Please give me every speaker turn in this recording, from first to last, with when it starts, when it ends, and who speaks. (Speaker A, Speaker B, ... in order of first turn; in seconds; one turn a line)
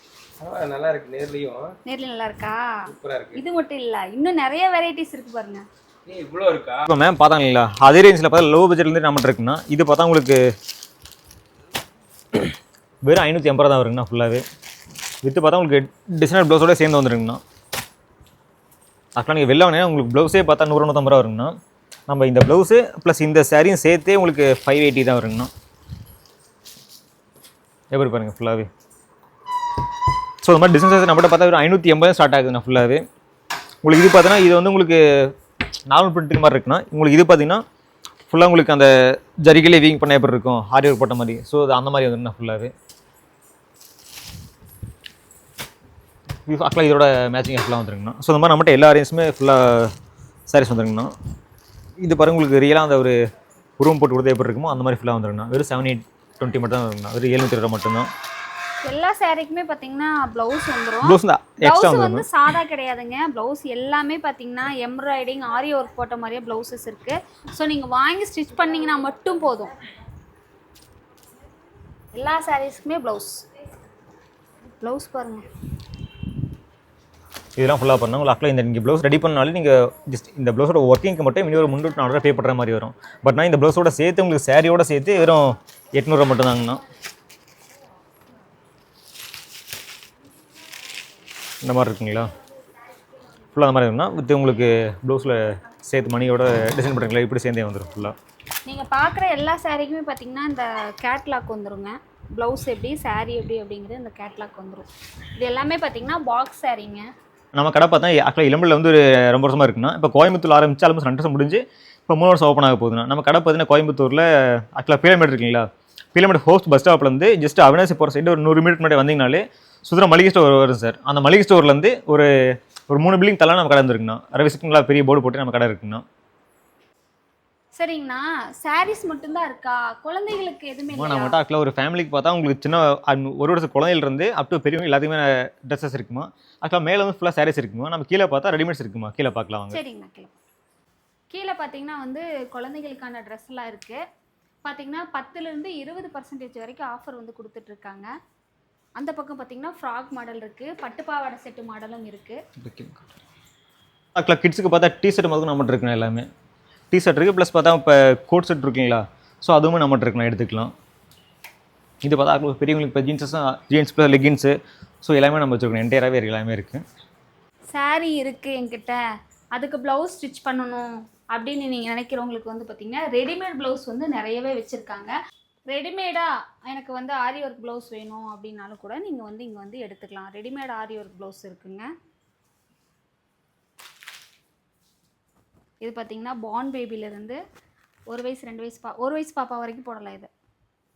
Speaker A: 0.4-1.7
Speaker B: 1.9-2.8
Speaker A: 2.9-3.4
Speaker B: 3.4-5.6
Speaker A: 6.1-6.9
Speaker C: 6.9-10.4
Speaker C: 13.1-14.4
Speaker C: 15.2-17.4
Speaker C: 19.1-21.5
Speaker C: 22.1-25.5
Speaker C: 27.9-28.7
Speaker C: 30.4-33.1
Speaker C: 33.8-35.3
Speaker C: 35.9-37.6
Speaker C: 38.3-42.7
Speaker C: 46.5-49.9
Speaker C: 50.5-51.1
Speaker C: 52.0-53.1
Speaker C: 53.8-58.1
Speaker B: 58.8-69.7
Speaker C: 61.0-62.3
Speaker B: 72.1-73.4
Speaker B: 74.8-75.5
Speaker C: 77.6-86.8
Speaker C: 91.6-92.3
Speaker C: 93.5-98.1
Speaker B: 98.7-104.9
Speaker B: 105.4-107.1
Speaker C: 107.5-126.0
Speaker B: 127.8-131.4
Speaker C: 130.9-139.8
Speaker B: 139.7-140.3
Speaker B: 141.3-144.0
Speaker B: 144.6-148.1
Speaker B: 149.0-152.4
Speaker C: 152.6-153.1
Speaker C: 154.1-156.3
Speaker C: 156.9-160.7
Speaker C: 162.0-166.8
Speaker B: 167.7-169.0
Speaker B: 169.6-175.1
Speaker B: 175.7-181.9
Speaker B: 185.8-187.4
Speaker B: 188.1-190.3